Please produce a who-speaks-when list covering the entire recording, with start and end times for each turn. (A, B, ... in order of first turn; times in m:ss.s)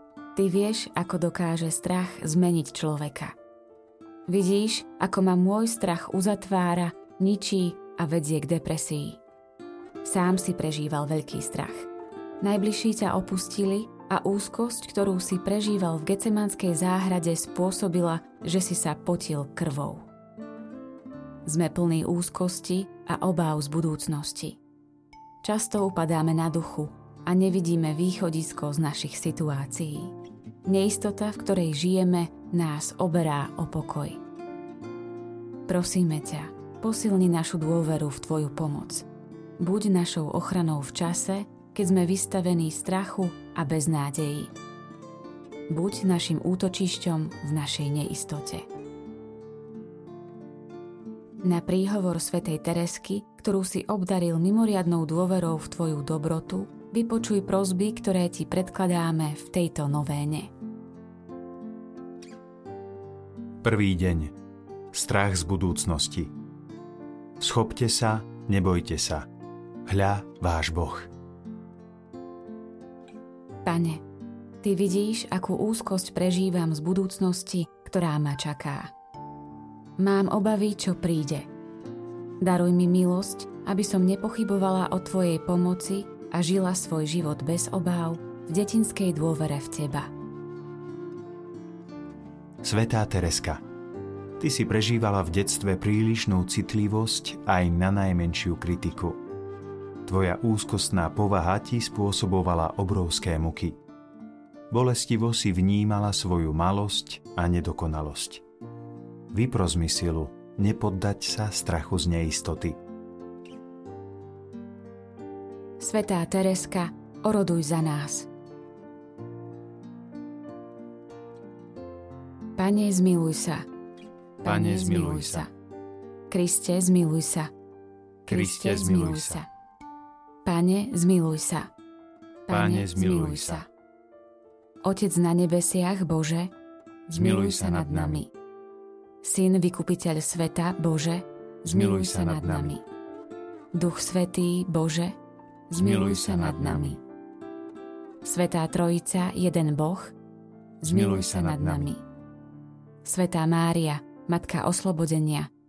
0:00.3-0:03.3 A
0:04.3-0:09.2 A
0:10.0-0:11.9 A
0:12.4-0:20.0 A
0:21.4-0:24.6 A
0:25.4-0:30.1 A
0:30.6-0:34.2 A
0:35.7-0:39.1 A
0:39.6-0:44.5 A
0:45.7-0:48.6 A
0:51.4-1:00.5 A
1:03.6-1:04.3 B
1:04.9-1:06.3 B
1:07.4-1:09.3 B
1:09.8-1:11.1 B
1:13.6-1:14.0 A
1:14.6-1:18.9 A
1:20.0-1:21.5 A
1:22.4-1:30.1 A
1:32.6-1:33.6 B
1:34.4-1:39.2 B
1:40.0-1:43.8 B
1:44.7-1:48.4 B
1:49.3-1:52.8 B
1:55.8-1:58.3 A
2:02.6-2:03.7 A
2:04.4-2:05.5 A
2:04.4-2:05.4 B
2:06.3-2:07.5 A
2:08.2-2:09.5 A
2:08.3-2:09.4 B
2:10.4-2:11.7 A
2:12.5-2:13.7 A
2:12.5-2:13.6 B
2:14.8-2:16.5 A
2:17.1-2:18.3 A
2:17.1-2:18.2 B
2:19.2-2:22.8 A
2:21.7-2:22.7 B
2:23.7-2:25.2 A
2:25.7-2:27.0 A
2:25.8-2:26.9 B
2:28.2-2:30.1 A
2:30.8-2:32.0 A
2:30.9-2:31.8 B
2:33.0-2:35.5 A